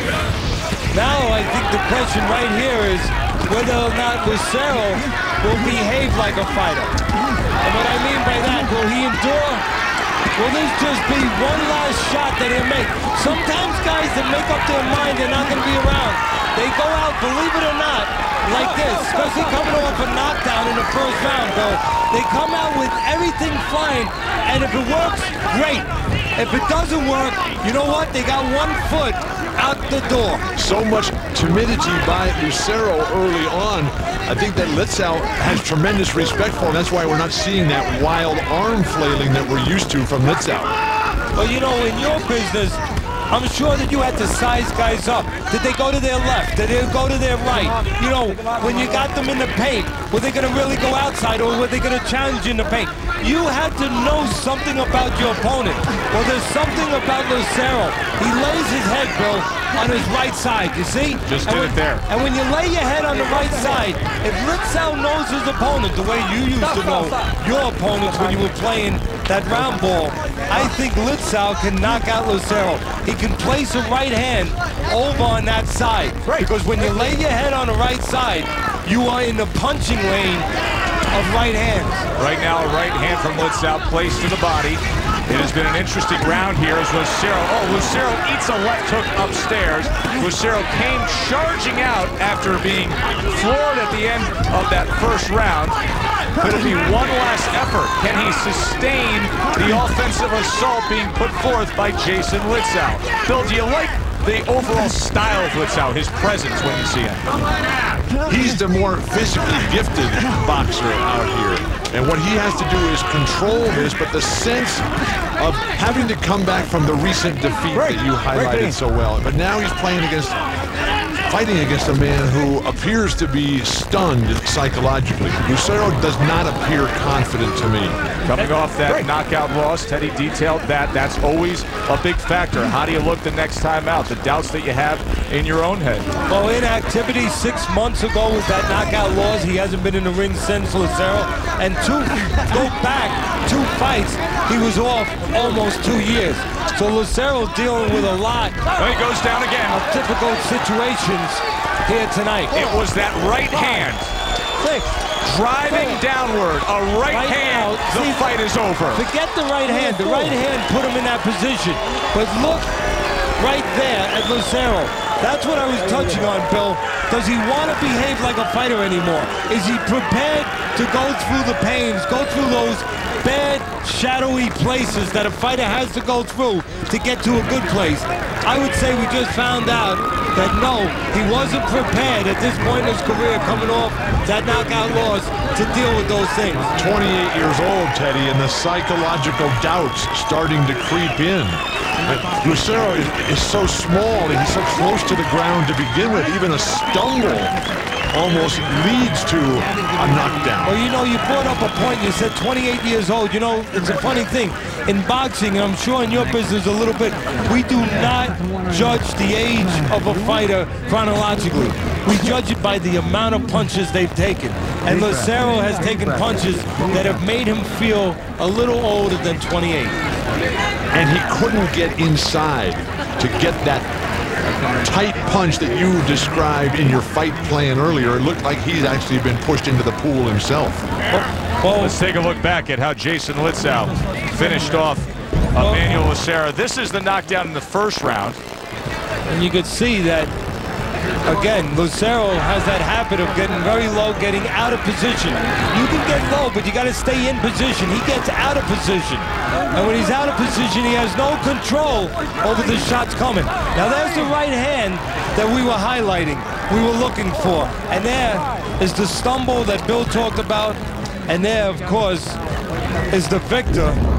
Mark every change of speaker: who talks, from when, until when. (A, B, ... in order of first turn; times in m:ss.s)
0:00.9-0:06.9 A
0:07.6-0:09.6 A
0:10.4-0:30.4 A
0:30.6-0:40.7 B
0:41.3-1:20.5 A
1:01.2-1:02.0 C
1:21.1-1:22.0 A
1:22.2-1:35.8 C
1:36.4-1:47.2 C
1:48.2-2:00.4 B
2:01.2-2:08.0 B
2:08.2-2:16.1 C
2:08.4-2:09.1 A
2:16.3-2:28.7 A
2:28.7-2:29.8 C
2:29.7-2:32.8 A
2:32.5-2:34.1 C
2:34.6-2:34.9 A
2:35.2-2:39.0 C
2:37.1-2:38.3 A
2:38.9-2:42.7 A
2:43.4-3:06.7 A
3:06.7-3:17.5 B
3:18.1-3:20.8 B
3:20.6-3:40.0 A
3:40.9-3:43.9 B
3:44.6-3:50.8 B
3:51.1-3:52.0 A
3:51.7-3:58.4 C
3:55.5-3:55.8 A
3:59.3-4:00.3 A
4:01.2-4:22.4 A
4:23.1-4:24.0 A